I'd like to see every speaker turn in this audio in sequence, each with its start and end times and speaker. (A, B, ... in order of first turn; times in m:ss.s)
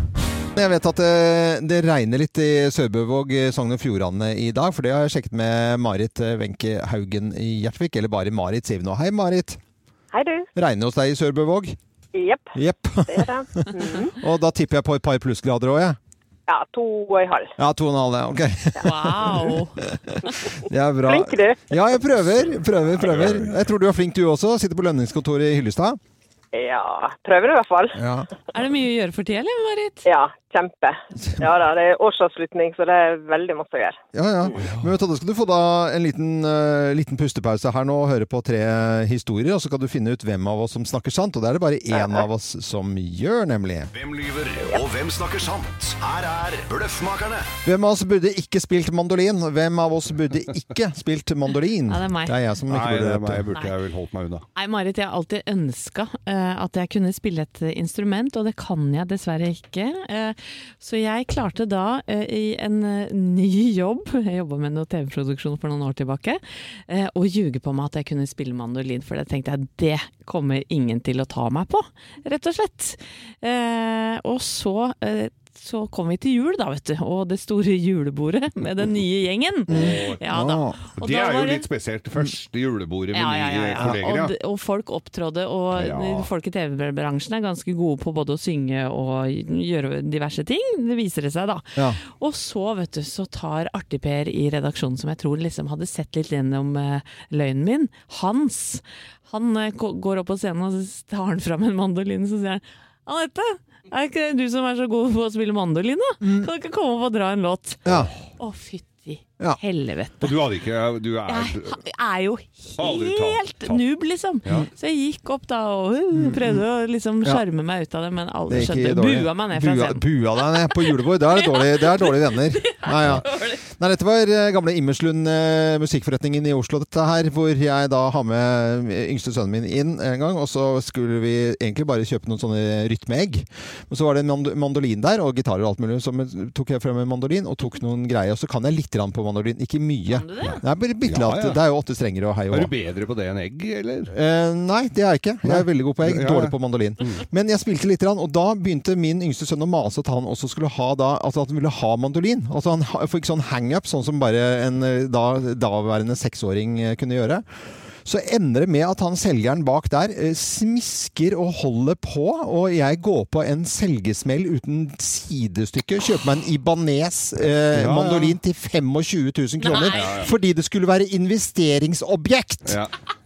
0:00.5-0:09.6 A
0:10.1-0:10.5 B
0:10.5-0:11.8 A
0:12.1-0:14.1 B
0:12.5-0:16.0 A
0:16.5-0:17.5 B
0:17.6-0:26.0 A
0:18.8-0:19.8 C
0:20.4-0:21.6 B
0:22.4-0:23.6 D
0:26.5-0:28.0 B
0:27.9-0:28.3 A
0:28.5-0:30.1 C
0:30.0-0:34.0 B
0:31.2-0:31.5 A
0:34.1-0:43.9 A
0:41.9-0:42.2 B
0:43.9-0:47.5 E
0:47.6-0:53.4 A
0:51.9-0:52.3 C
0:52.7-0:54.4 D
0:54.5-1:21.6 C
1:19.7-1:20.2 D
1:19.7-1:20.8 A
1:21.0-1:24.3 D
1:23.1-1:47.8 C
1:25.7-1:26.3 D
1:46.2-1:46.5 A
1:47.8-1:48.1 A
1:48.4-1:50.4 C
1:50.2-1:51.8 D
1:51.3-2:03.6 C
1:52.8-1:53.8 D
1:56.1-1:56.6 A
1:58.5-2:22.7 A
2:20.1-2:20.6 C
2:20.4-2:21.6 D
2:22.5-2:24.1 D
2:24.1-2:52.8 A
2:25.4-2:27.2 D
2:47.7-2:48.4 D
2:49.6-2:50.2 C
2:49.8-2:50.3 D
2:52.6-2:52.9 D